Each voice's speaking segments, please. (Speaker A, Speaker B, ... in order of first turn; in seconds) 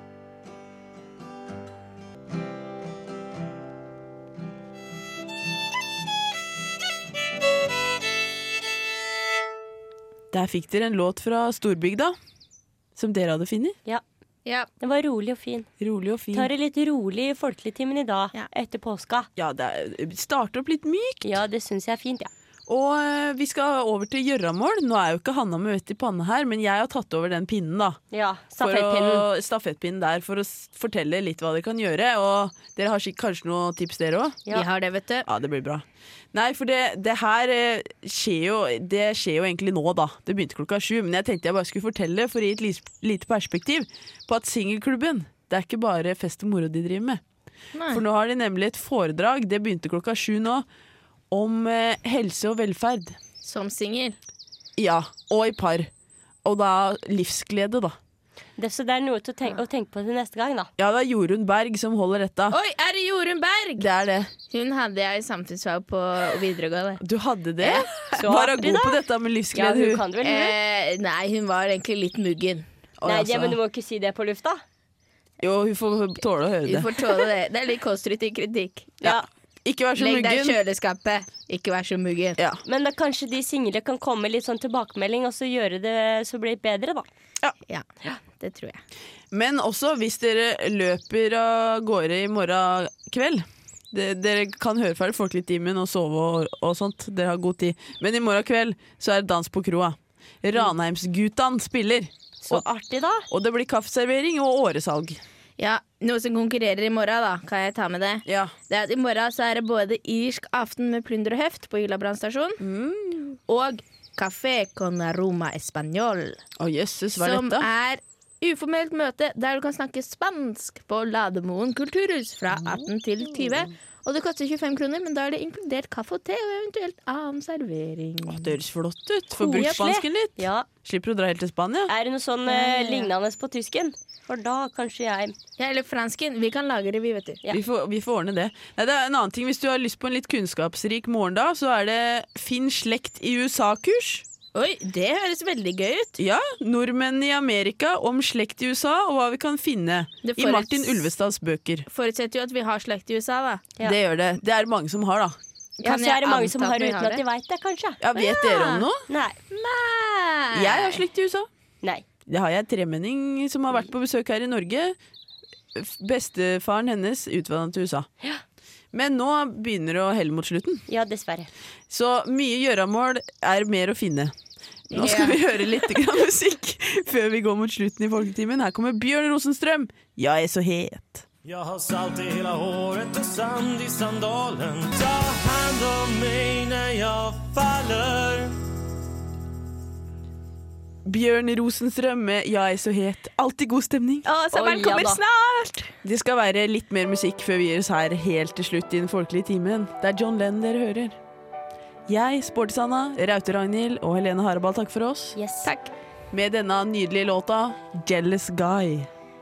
Speaker A: 10.3-12.1, 12.9-13.8, 15.8-16.5, 19.4-21.4, 22.7-28.0, 28.6-34.4, 35.2-47.2, 47.9-50.6, 51.3-53.2, 54.8-55.9, 56.4-58.0, 60.8-62.6, 63.8-64.3, 67.0-70.0, 73.0-73.6, 75.4-77.0, 79.0-80.6, 89.3-102.6, 103.3-105.2, 108.2-108.5, 112.6-113.4, 116.6-117.7, 128.3-131.9, 137.5-144.2, 146.2-151.8, 153.8-155.4, 158.0-159.0, 160.5-161.5, 162.3-164.9, 165.7-168.1, 168.9-170.8, 171.9-174.3, 174.9-181.2, 191.0-194.2, 196.0-201.2, 202.1-205.3, 206.3-209.1
Speaker B: 14.4-14.7, 34.5-35.2, 47.7-48.0, 53.4-54.2, 62.5-63.9, 64.5-67.0, 67.6-68.2, 70.2-72.6, 76.6-79.0, 80.0-82.4, 88.4-88.8, 105.6-112.6, 113.5-116.4, 117.1-128.6, 129.5-130.1, 132.5-133.1, 135.6-137.4, 144.5-146.2, 150.2-151.1, 151.9-153.7, 155.8-157.2, 158.1-158.9, 159.5-161.0, 174.9-175.4, 194.2-195.9, 205.6-205.9
Speaker C: 14.8-15.7, 16.3-19.3, 21.2-22.3, 28.1-29.2, 58.6-60.7, 68.1-69.0, 69.5-70.5, 73.0-74.6, 82.6-87.1, 102.4-103.2, 129.3-130.7, 131.9-135.3, 155.8-158.0, 159.1-159.4, 170.9-171.5, 194.5-195.2, 205.3-205.7
Speaker D: 181.4-188.6